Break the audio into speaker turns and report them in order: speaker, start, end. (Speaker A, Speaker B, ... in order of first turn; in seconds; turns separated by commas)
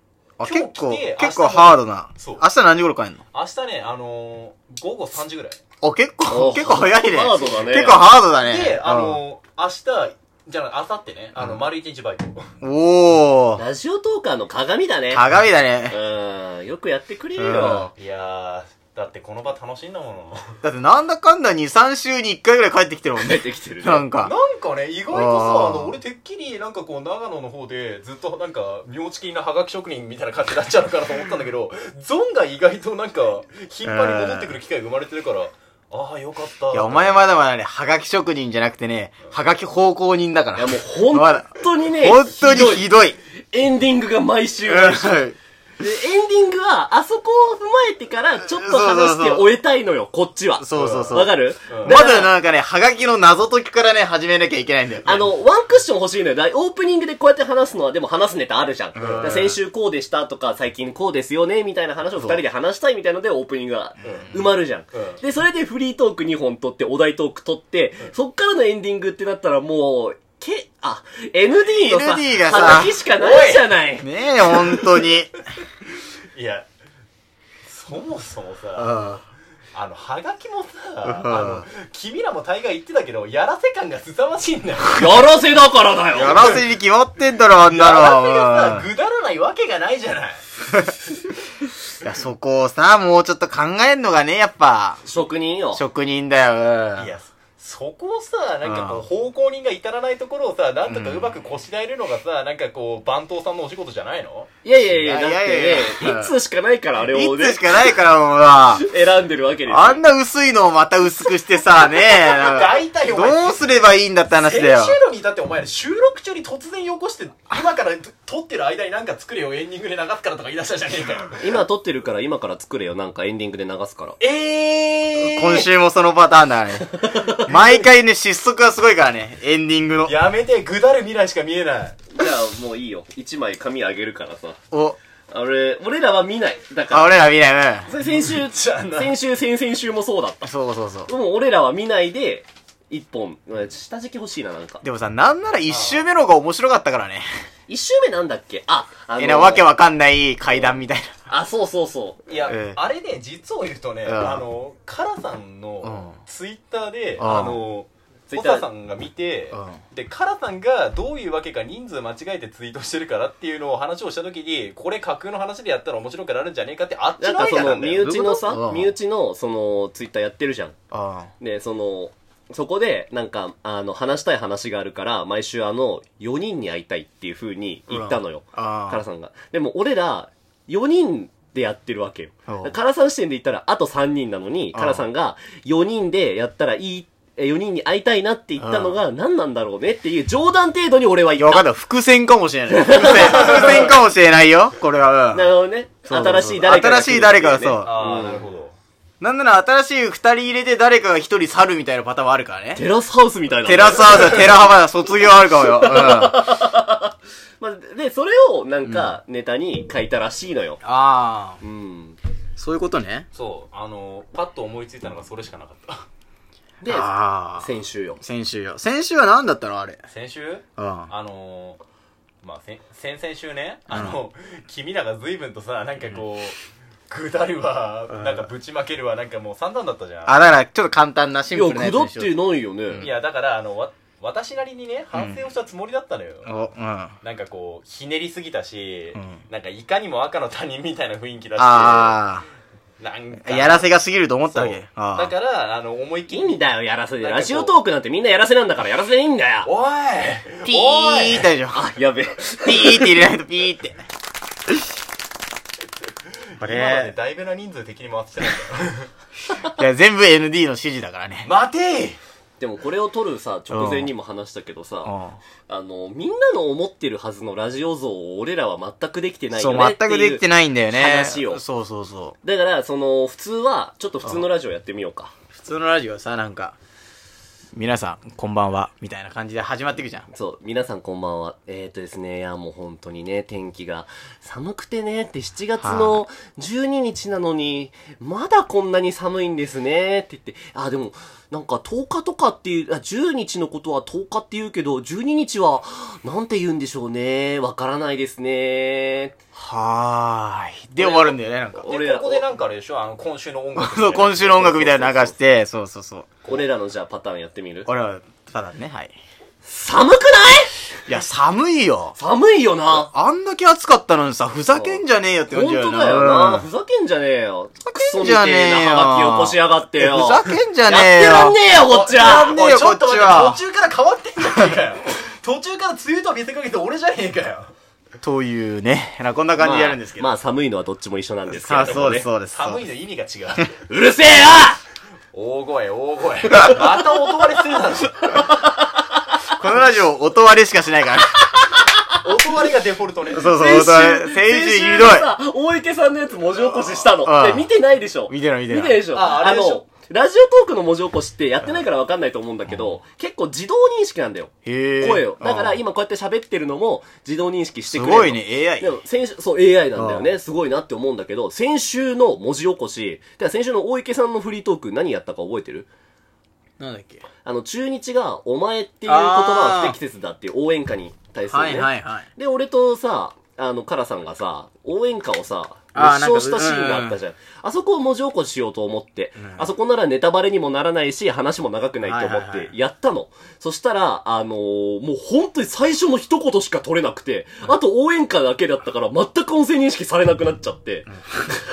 Speaker A: 0.4-2.5, Speaker B: 0.4-3.2, Speaker A: 3.3-5.6, Speaker B: 5.8-9.2, Speaker C: 6.3-8.1, Speaker A: 8.4-12.5, Speaker B: 12.6-13.6, Speaker C: 13.6-15.3, Speaker B: 15.1-16.0, Speaker C: 15.9-17.9, Speaker B: 17.4-17.9, Speaker A: 18.0-20.6, Speaker B: 20.6-24.3, Speaker C: 23.2-24.1, Speaker A: 24.2-37.2, Speaker B: 25.1-25.9, Speaker B: 33.8-34.6, Speaker B: 36.7-43.2, Speaker C: 40.5-42.9, Speaker C: 43.5-45.3, Speaker B: 44.7-45.4, Speaker C: 45.8-52.3, Speaker B: 48.5-49.5, Speaker B: 50.6-55.3, Speaker A: 50.7-51.2, Speaker A: 51.7-52.0, Speaker C: 55.0-74.1, Speaker B: 59.0-59.6, Speaker A: 59.0-59.5, Speaker A: 64.0-64.3, Speaker B: 64.0-64.4, Speaker A: 64.9-65.2, Speaker B: 71.7-72.9, Speaker A: 72.5-73.7, Speaker B: 74.0-75.3, Speaker A: 74.4-75.2, Speaker A: 76.3-76.7, Speaker A: 77.7-79.1, Speaker B: 78.8-79.2, Speaker A: 79.7-85.3, Speaker B: 81.0-81.7, Speaker C: 84.9-86.5, Speaker B: 86.2-88.9, Speaker A: 86.2-86.7, Speaker A: 87.5-90.4, Speaker B: 92.0-95.0, Speaker C: 95.0-95.8, Speaker B: 95.8-97.1, Speaker A: 97.0-104.5, Speaker B: 98.6-99.0, Speaker B: 100.9-101.4, Speaker C: 104.6-107.9, Speaker B: 104.9-106.3, Speaker B: 107.0-108.9, Speaker C: 108.8-110.0, Speaker B: 109.7-115.0, Speaker A: 112.1-113.6, Speaker A: 114.3-121.4, Speaker C: 121.4-124.2, Speaker A: 124.2-125.7, Speaker B: 125.2-130.2, Speaker C: 126.9-127.4, Speaker A: 130.1-132.1, Speaker C: 132.1-134.6, Speaker B: 134.7-135.0, Speaker C: 135.3-137.1, Speaker B: 136.9-137.9, Speaker C: 137.9-140.5, Speaker A: 138.0-139.2, Speaker B: 140.4-141.1, Speaker C: 141.1-144.8, Speaker B: 144.8-147.3, Speaker A: 145.7-146.1, Speaker C: 147.7-149.7, Speaker B: 149.2-151.1, Speaker C: 151.3-152.2, Speaker A: 152.3-168.1, Speaker B: 152.5-152.8, Speaker B: 154.1-154.5, Speaker B: 155.8-156.2, Speaker B: 157.2-157.6, Speaker C: 158.3-158.7, Speaker B: 159.5-159.8, Speaker C: 167.2-170.8, Speaker B: 168.0-168.9, Speaker B: 170.9-171.3, Speaker C: 171.4-191.7, Speaker B: 177.9-179.0, Speaker B: 182.5-182.8, Speaker B: 184.7-185.1, Speaker B: 188.6-189.0, Speaker B: 191.4-195.6, Speaker C: 192.7-193.9, Speaker A: 193.2-193.9, Speaker C: 195.3-198.5, Speaker B: 196.1-197.9, Speaker A: 197.8-198.8, Speaker B: 199.2-202.8, Speaker C: 202.8-204.5, Speaker B: 203.7-206.5, Speaker C: 205.5-210.8, Speaker B: 208.8-209.1, Speaker B: 210.8-211.6, Speaker C: 211.6-212.2, Speaker B: 212.6-213.3, Speaker A: 213.3-216.1, Speaker C: 216.8-218.2, Speaker B: 216.9-220.0, Speaker A: 220.1-221.8, Speaker B: 220.8-221.1, Speaker A: 222.4-226.6, Speaker B: 223.9-224.2, Speaker A: 227.1-230.4, Speaker B: 228.1-228.5, Speaker B: 230.3-232.3, Speaker C: 231.5-233.1, Speaker A: 233.0-236.6, Speaker B: 235.1-235.4, Speaker B: 236.5-237.1, Speaker A: 237.2-242.2, Speaker B: 241.6-242.5, Speaker A: 243.0-243.9, Speaker B: 243.4-245.3, Speaker A: 244.5-247.8, Speaker C: 246.3-249.7, Speaker A: 249.7-251.5, Speaker B: 250.7-251.9, Speaker C: 251.7-253.2, Speaker B: 252.4-254.0, Speaker A: 256.6-259.1, Speaker B: 256.6-257.1, Speaker B: 259.7-261.5, Speaker A: 261.4-262.2, Speaker C: 262.6-265.1, Speaker B: 263.7-264.1, Speaker B: 265.1-265.4, Speaker C: 265.7-271.6, Speaker B: 269.5-272.4, Speaker C: 272.4-275.3, Speaker B: 275.5-276.8, Speaker B: 277.8-280.3, Speaker C: 280.3-299.4, Speaker B: 285.8-286.2, Speaker B: 299.6-301.8, Speaker C: 301.0-302.5, Speaker A: 301.8-304.8, Speaker B: 303.8-306.3, Speaker C: 304.8-305.4, Speaker C: 306.5-307.9, Speaker B: 307.9-309.2, Speaker C: 309.6-310.7, Speaker B: 311.1-312.2, Speaker C: 312.2-313.1, Speaker B: 312.9-316.7, Speaker C: 314.7-322.6, Speaker B: 317.9-321.6, Speaker A: 321.7-327.7, Speaker B: 322.1-323.6, Speaker B: 328.2-330.3, Speaker C: 329.6-332.3, Speaker B: 331.5-332.8, Speaker A: 332.5-333.8, Speaker C: 333.9-334.8, Speaker A: 335.3-338.5, Speaker B: 339.6-341.5, Speaker C: 341.7-342.0, Speaker A: 342.2-343.6, Speaker B: 343.3-345.3, Speaker C: 343.4-365.9, Speaker B: 347.2-347.7, Speaker B: 348.3-349.1, Speaker A: 349.1-349.9, Speaker B: 354.6-355.8, Speaker B: 357.9-359.0, Speaker B: 360.0-360.3, Speaker B: 366.8-367.2, Speaker C: 367.4-391.1, Speaker B: 369.1-370.0, Speaker B: 371.5-372.3, Speaker B: 375.9-377.2, Speaker B: 379.4-379.7, Speaker B: 382.0-382.7